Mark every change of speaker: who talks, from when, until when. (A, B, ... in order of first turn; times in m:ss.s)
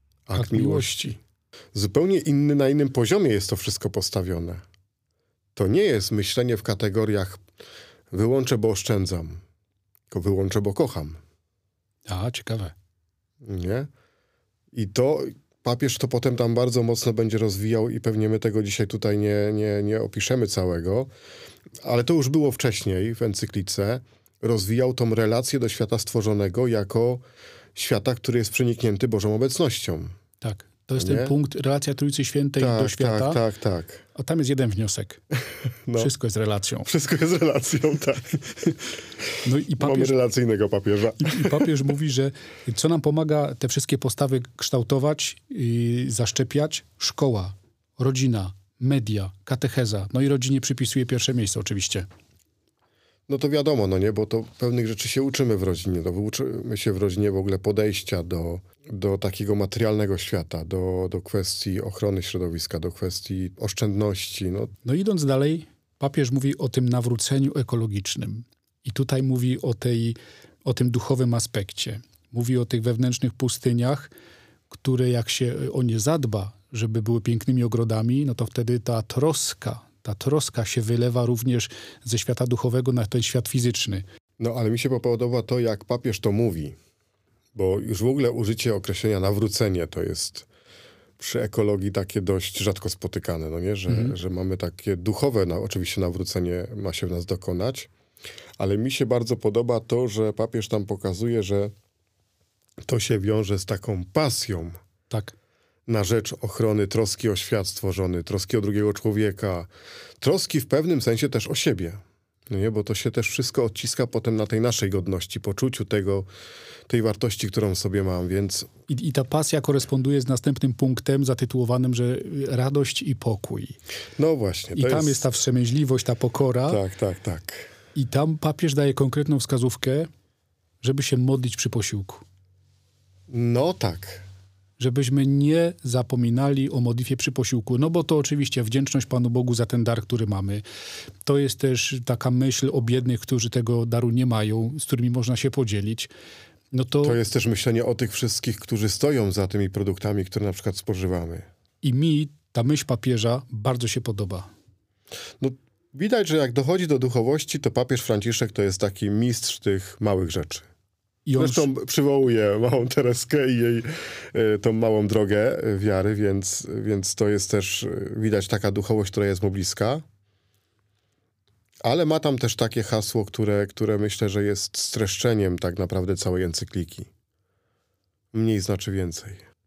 0:00.3-0:01.2 A
0:00.4-0:01.1 B
0:01.7-0:04.6 A
0:05.6-0:07.4 A
0:08.1-0:09.4 A
0:10.1-0:11.2 A
0:12.1-0:12.7 B
0:13.4-0:13.9 A
0:14.7-0:21.1 A
0:21.8-0:27.2 A
0:27.8-0:30.2 A
0:30.4-0:33.4 B
0:31.0-0:31.4 A
0:32.6-0:34.0 A
0:34.2-0:35.2 B
0:35.8-0:36.1 A
0:36.0-0:36.9 B
0:36.8-0:38.8 A
0:39.4-0:40.1 B
0:39.8-0:41.7 A
0:41.2-0:52.1 B
0:53.3-1:04.8 A
1:04.8-1:14.1 B
1:14.7-1:24.0 B
1:24.4-1:26.8 A
1:27.6-1:30.5 A
1:31.2-1:37.9 A
1:33.9-1:34.1 B
1:38.6-1:41.7 A
1:42.8-1:44.8 A
1:45.9-1:49.7 A
1:50.2-1:56.3 A
1:56.9-1:58.7 A
1:58.9-2:03.8 B
2:04.2-2:05.3 A
2:04.8-2:06.8 B
2:06.7-2:07.7 A
2:08.0-2:10.1 B
2:10.8-2:12.2 B
2:13.3-2:14.3 A
2:14.8-2:20.6 B
2:21.3-2:26.1 B
2:26.7-2:27.2 B
2:27.0-2:31.5 A
2:31.8-2:34.5 B
2:35.4-2:40.7 A
2:41.3-2:41.7 B
2:41.4-2:50.0 A
2:51.8-2:57.1 A
2:58.3-2:59.4 A